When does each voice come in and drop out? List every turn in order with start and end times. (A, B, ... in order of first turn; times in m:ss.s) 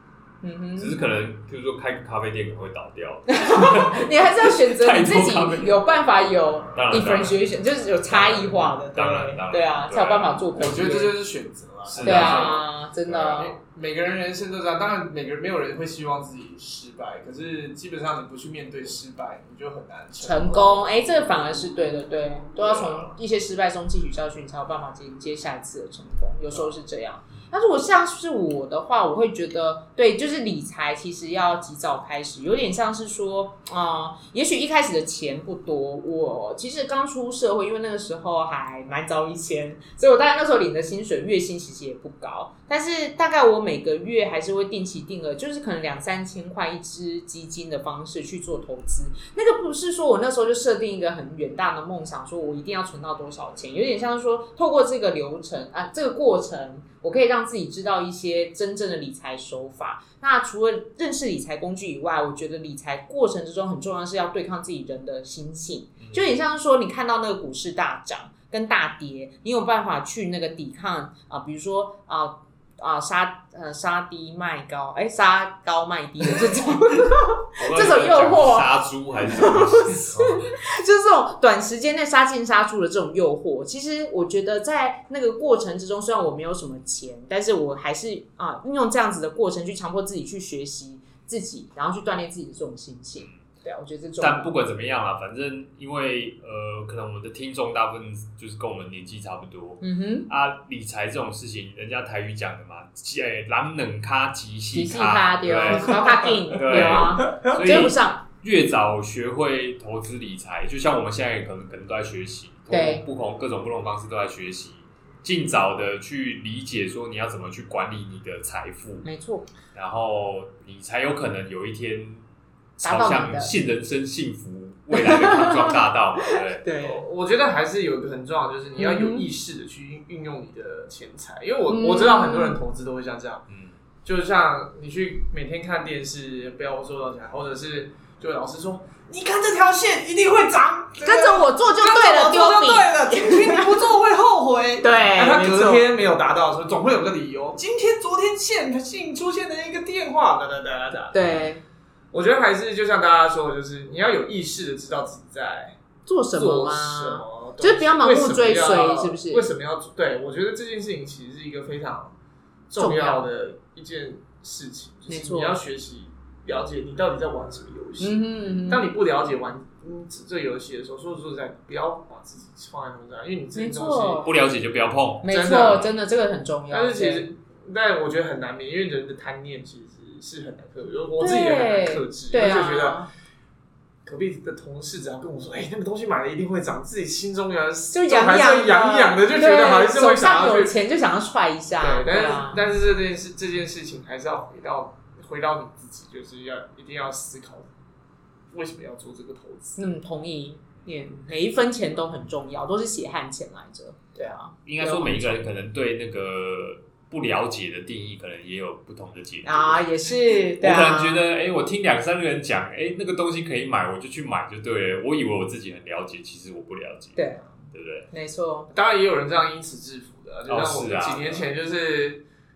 0:00.4-0:01.0 A
0:00.8-0:05.8 B
0:03.3-0:11.1 A
0:06.7-0:07.4 B
0:08.1-0:10.9 B
0:10.5-0:12.6 C
0:11.8-0:13.4 B
0:12.0-0:13.6 A
0:13.3-0:20.8 C
0:20.2-1:34.5 A
0:22.6-0:23.2 B
1:06.0-1:06.3 B
1:17.6-1:20.4 B
1:34.2-1:59.0 B
1:39.8-1:40.3 A
1:44.7-1:48.2 A
1:45.9-1:47.9 C
1:52.7-1:53.0 A
1:59.0-1:59.5 A
1:59.7-2:02.2 B
2:02.8-2:03.5 A
2:02.8-2:06.6 B
2:04.9-2:07.0 A
2:06.8-2:13.4 C
2:08.8-2:09.2 A
2:11.7-2:12.6 A
2:13.5-2:13.7 B
2:14.0-2:31.2 C
2:21.0-2:23.8 A
2:24.8-2:25.8 A
2:31.1-2:31.6 A
2:32.1-2:35.8 C
2:36.0-2:39.5 A
2:36.3-2:42.1 C
2:42.7-2:54.3 C
2:42.8-2:43.2 A
2:45.1-2:45.6 A
2:48.0-2:48.9 A
2:53.5-2:54.3 A
2:54.2-2:55.9 B
2:55.2-2:57.3 A
2:55.2-2:55.9 C
2:56.7-3:03.0 C
3:01.2-3:03.1 A
3:04.0-3:10.7 C
3:07.9-3:12.6 A
3:11.8-3:17.7 C
3:18.5-3:19.8 C
3:19.8-3:25.4 A
3:24.6-3:38.1 B
3:29.4-3:31.2 A
3:37.2-3:37.5 A
3:38.1-3:38.7 A
3:38.7-3:42.2 C
3:40.5-3:41.4 B